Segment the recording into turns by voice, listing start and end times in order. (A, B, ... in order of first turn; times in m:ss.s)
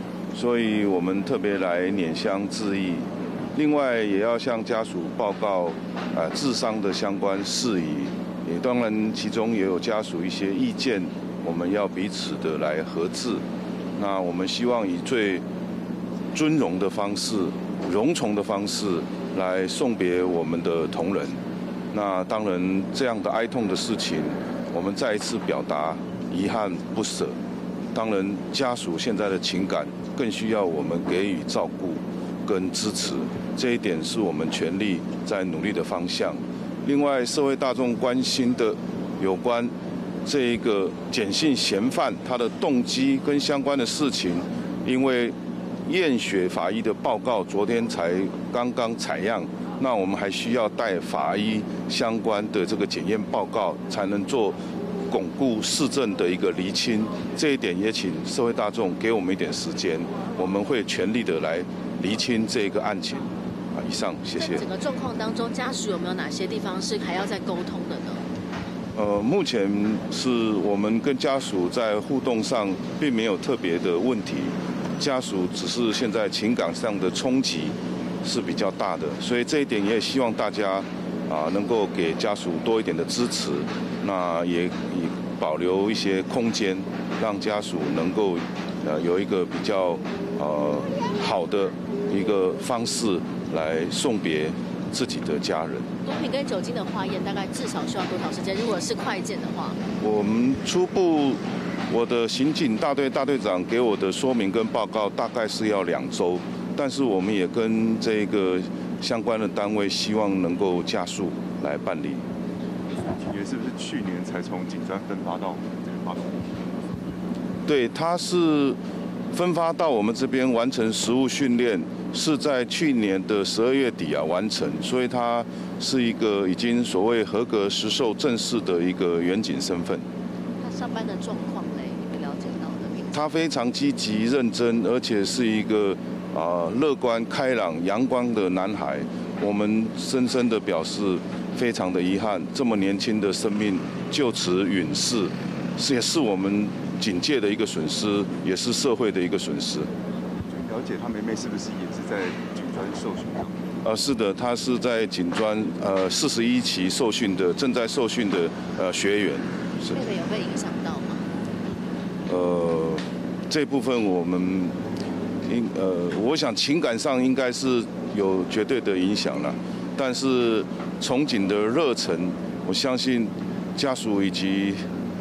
0:00.3-0:13.4 A
0:14.0-0:15.4 A
0:16.3-0:21.4 A
0:21.9-0:27.3 A
0:27.9-0:39.7 A
0:40.2-0:45.3 A
0:45.9-0:54.6 A
0:55.1-1:04.7 A
1:04.4-1:08.2 B
1:08.9-1:35.9 A
1:36.0-1:39.8 B
1:40.0-1:52.2 A
1:53.0-1:57.0 C
1:57.6-1:58.8 A
1:59.3-2:10.0 A
2:10.6-2:13.2 B
2:13.1-2:29.9 A
2:30.5-2:33.6 C
2:33.8-2:40.0 A
2:39.9-2:41.2 B
2:42.3-2:44.8 A
2:45.4-2:54.8 A